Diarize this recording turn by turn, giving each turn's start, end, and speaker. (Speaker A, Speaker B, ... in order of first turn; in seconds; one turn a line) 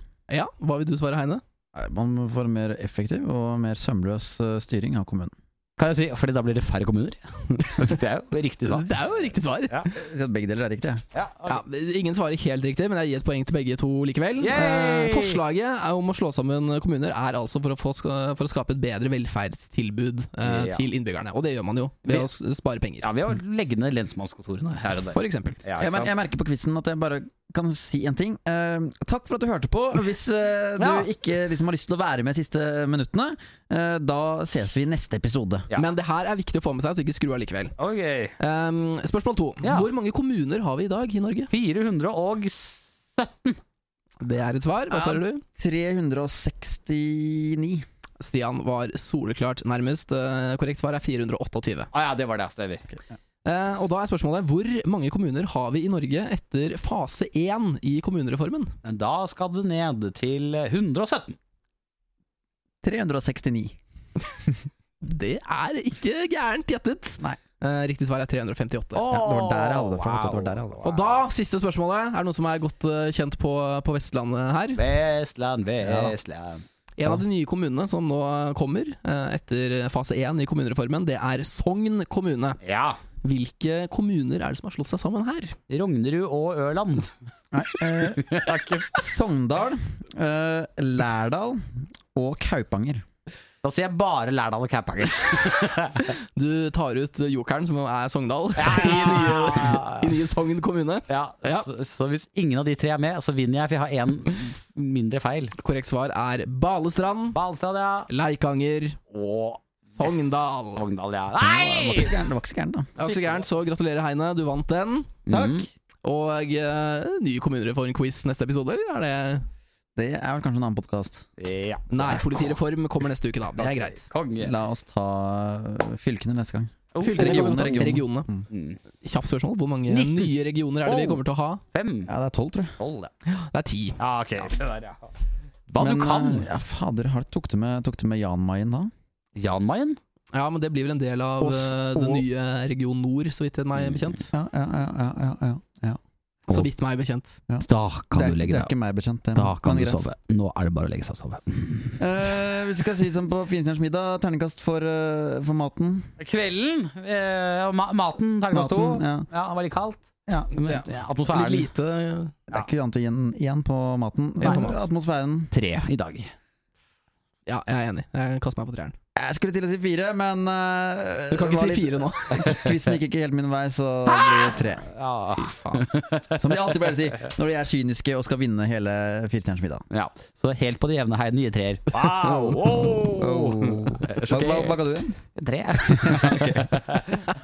Speaker A: 0.3-1.4
Speaker B: 1.7-5.3
Speaker C: 5.8-8.9
Speaker A: 8.7-9.8
Speaker B: 9.9-11.0
Speaker C: 11.1-11.6
Speaker A: 11.5-23.1
Speaker C: 14.4-15.4
Speaker C: 20.4-20.8
Speaker C: 23.0-26.2
Speaker A: 25.1-25.6
Speaker B: 25.8-35.7
Speaker C: 30.8-31.1
Speaker A: 35.8-37.7
Speaker C: 37.8-38.3
Speaker A: 38.4-41.5
Speaker C: 39.6-39.9
Speaker C: 41.5-43.6
Speaker A: 44.2-45.4
Speaker B: 44.9-47.9
Speaker A: 48.2-51.9
Speaker C: 51.9-52.9
Speaker A: 53.4-58.7
Speaker C: 58.8-61.4
Speaker B: 62.8-63.8
Speaker A: 65.0-69.0
Speaker C: 68.9-71.0
Speaker B: 69.1-70.8
Speaker A: 70.8-74.8
Speaker C: 74.7-76.6
Speaker B: 75.8-76.1
Speaker A: 77.0-82.6
Speaker C: 82.6-83.0
Speaker A: 83.2-85.5
Speaker C: 85.7-87.1
Speaker B: 87.5-88.2
Speaker C: 88.2-89.0
Speaker B: 88.9-93.0
Speaker C: 93.6-96.1
Speaker A: 96.3-101.7
Speaker C: 98.6-100.1
Speaker C: 101.1-105.5
Speaker A: 105.6-107.4
Speaker C: 107.3-108.1
Speaker A: 108.1-109.0
Speaker C: 109.1-112.1
Speaker A: 110.0-110.8
Speaker B: 111.4-112.9
Speaker A: 113.0-115.2
Speaker C: 113.0-113.4
Speaker C: 115.3-115.7
Speaker B: 115.3-115.7
Speaker A: 116.0-119.4
Speaker B: 120.0-121.3
Speaker C: 121.4-122.2
Speaker A: 121.9-124.1
Speaker C: 123.6-124.5
Speaker B: 124.4-128.4
Speaker C: 126.9-128.8
Speaker A: 127.0-128.3
Speaker A: 129.0-131.6
Speaker C: 129.9-132.1
Speaker B: 132.1-132.8
Speaker C: 132.8-133.1
Speaker A: 133.5-134.0
Speaker C: 134.0-135.1
Speaker C: 135.7-136.5
Speaker B: 135.8-138.9
Speaker C: 139.3-140.0
Speaker A: 140.3-144.2
Speaker B: 141.4-142.2
Speaker B: 144.3-146.0
Speaker A: 146.5-147.4
Speaker B: 147.5-150.0
Speaker C: 147.6-148.7
Speaker C: 149.3-152.0
Speaker B: 152.0-156.1
Speaker C: 156.2-161.7
Speaker B: 158.5-159.3
Speaker A: 160.6-162.3
Speaker B: 162.5-165.5
Speaker A: 164.4-164.8
Speaker C: 165.5-166.3
Speaker A: 167.4-168.9
Speaker B: 169.2-174.8
Speaker A: 171.3-172.6
Speaker C: 174.1-176.4
Speaker A: 175.4-175.8
Speaker B: 176.3-179.8
Speaker C: 179.9-187.2
Speaker B: 182.1-185.2
Speaker B: 185.9-186.6